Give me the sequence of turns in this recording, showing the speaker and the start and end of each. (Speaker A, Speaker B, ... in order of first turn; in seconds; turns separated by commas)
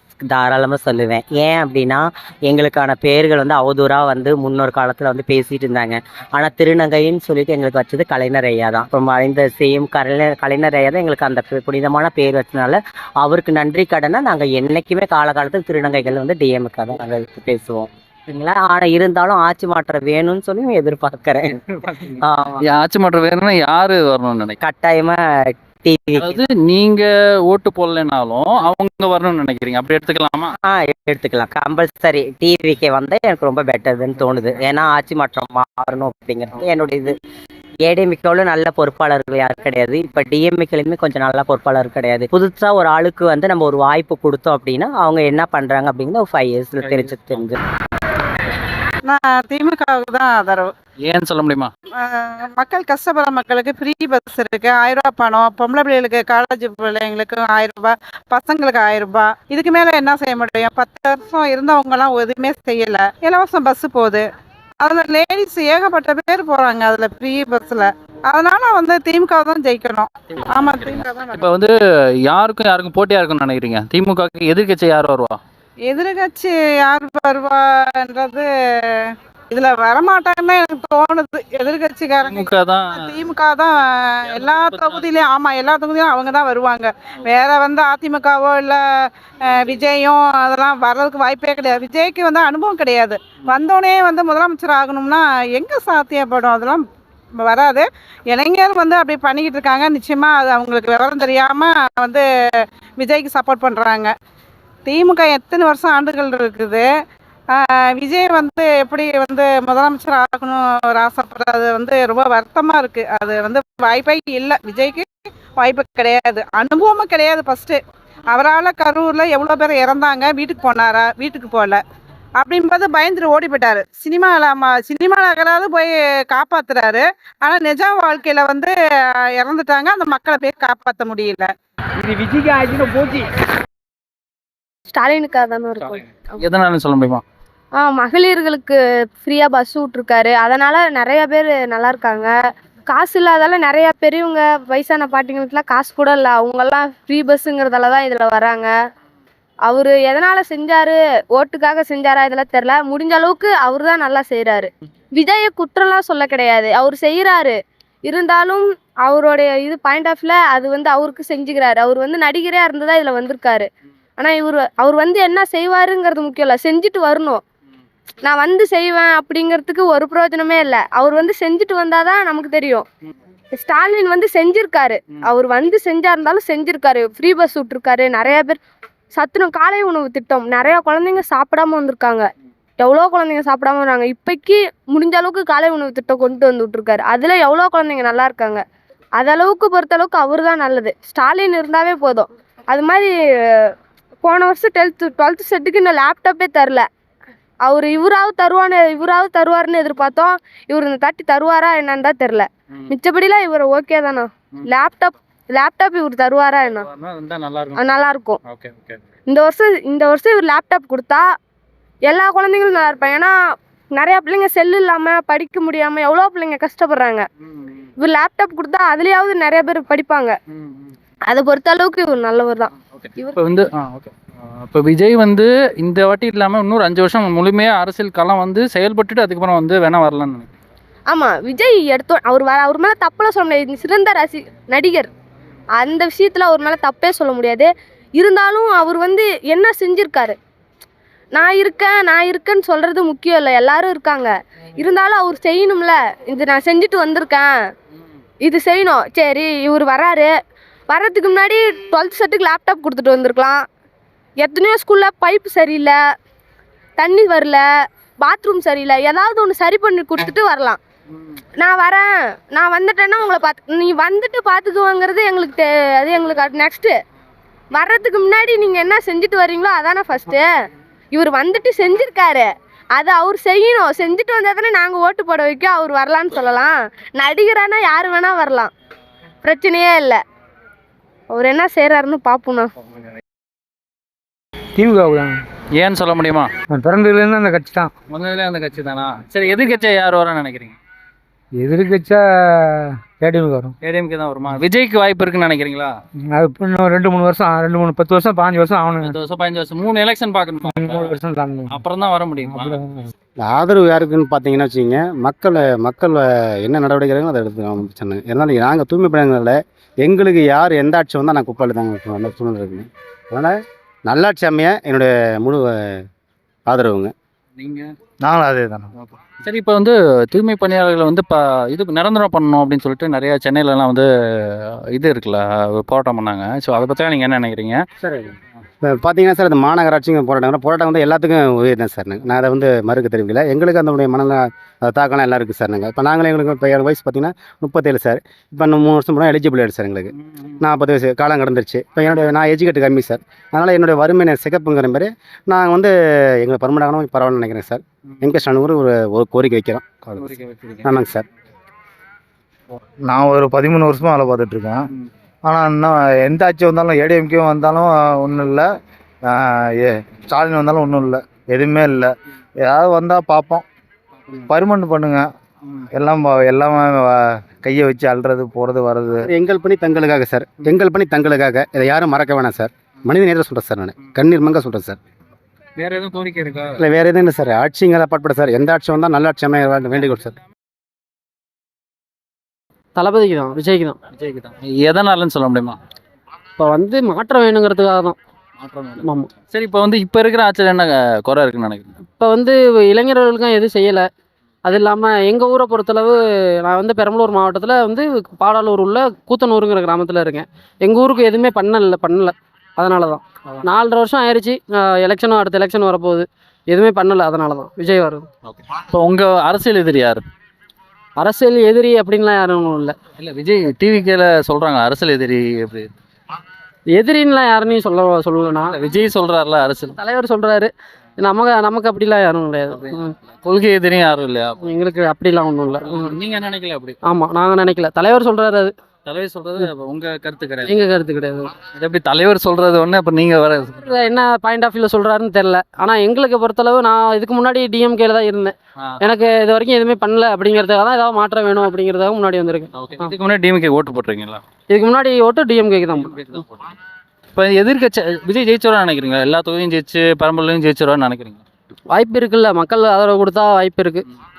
Speaker A: 0.3-22.6, Speaker B: 22.6-24.6, Speaker A: 24.6-26.4, Speaker B: 26.2-30.5, Speaker A: 30.6-37.1, Speaker A: 37.9-47.5, Speaker C: 49.1-50.7, Speaker B: 51.0-51.7, Speaker C: 52.0-64.2, Speaker C: 64.8-71.4, Speaker B: 70.4-71.7, Speaker B: 72.2-75.4, Speaker C: 75.9-88.8, Speaker B: 82.2-83.2, Speaker B: 84.3-85.0, Speaker C: 89.5-96.8, Speaker C: 97.4-102.2, Speaker C: 103.0-104.1, Speaker C: 104.8-106.8, Speaker C: 107.5-115.0, Speaker C: 115.6-117.8, Speaker C: 118.3-121.8, Speaker C: 122.4-128.7, Speaker C: 129.4-131.5, Speaker D: 132.5-132.9, Speaker E: 134.9-136.0, Speaker B: 135.9-137.2, Speaker E: 137.8-142.3, Speaker E: 142.9-148.7, Speaker E: 149.7-163.7, Speaker E: 164.2-167.4, Speaker E: 168.2-172.8, Speaker E: 173.5-178.6, Speaker E: 179.1-188.6, Speaker E: 189.2-193.7, Speaker E: 194.2-196.8, Speaker E: 197.6-206.8, Speaker B: 206.8-207.8, Speaker E: 207.8-208.4, Speaker B: 208.4-209.0, Speaker E: 209.3-211.2, Speaker E: 212.1-213.3, Speaker E: 213.9-217.2, Speaker B: 217.4-217.9, Speaker E: 218.0-220.3, Speaker B: 220.5-220.9, Speaker E: 221.3-223.4, Speaker B: 222.9-230.5, Speaker E: 231.1-235.1, Speaker E: 235.8-240.3, Speaker E: 241.3-247.5, Speaker E: 248.4-250.3, Speaker E: 250.9-253.6, Speaker E: 254.4-255.9, Speaker E: 257.0-257.6, Speaker E: 258.2-260.8, Speaker E: 261.6-266.9, Speaker E: 267.7-270.5, Speaker E: 271.1-278.7, Speaker E: 279.4-280.2, Speaker E: 281.3-282.7, Speaker D: 284.8-285.4, Speaker B: 285.8-286.5, Speaker D: 286.7-287.9, Speaker B: 288.1-290.8, Speaker D: 291.6-293.7, Speaker B: 293.8-295.9, Speaker D: 296.3-299.1, Speaker B: 299.0-301.1, Speaker D: 300.7-301.7, Speaker B: 301.7-302.8, Speaker D: 302.5-303.0, Speaker F: 303.4-313.5, Speaker F: 314.1-316.0, Speaker F: 316.7-317.1, Speaker B: 317.6-317.9, Speaker G: 318.2-318.9, Speaker B: 319.0-327.8, Speaker F: 328.0-328.3, Speaker F: 328.8-350.3, Speaker B: 340.2-340.6, Speaker B: 350.2-350.9, Speaker F: 350.8-351.2, Speaker G: 353.1-354.8, Speaker G: 355.4-358.6, Speaker G: 359.3-363.6, Speaker G: 364.5-365.2, Speaker G: 365.9-369.3, Speaker F: 369.2-375.0, Speaker B: 375.8-376.8, Speaker F: 376.8-380.4, Speaker H: 383.0-384.0, Speaker B: 384.1-385.8, Speaker H: 386.6-388.2, Speaker B: 388.6-391.9, Speaker H: 389.0-389.3, Speaker H: 392.2-394.1, Speaker H: 394.6-408.2, Speaker B: 408.5-410.2, Speaker H: 411.2-412.9, Speaker B: 413.2-415.9, Speaker H: 416.9-418.8, Speaker B: 418.7-419.9, Speaker H: 419.9-423.1, Speaker B: 422.7-424.6, Speaker H: 424.6-426.1, Speaker B: 425.8-427.0, Speaker H: 427.1-428.7, Speaker B: 429.1-430.7, Speaker H: 430.7-431.5, Speaker B: 431.6-433.9, Speaker H: 433.8-443.1, Speaker B: 442.7-444.4, Speaker H: 444.7-446.3, Speaker B: 446.0-446.7, Speaker B: 447.3-451.4, Speaker H: 451.9-454.0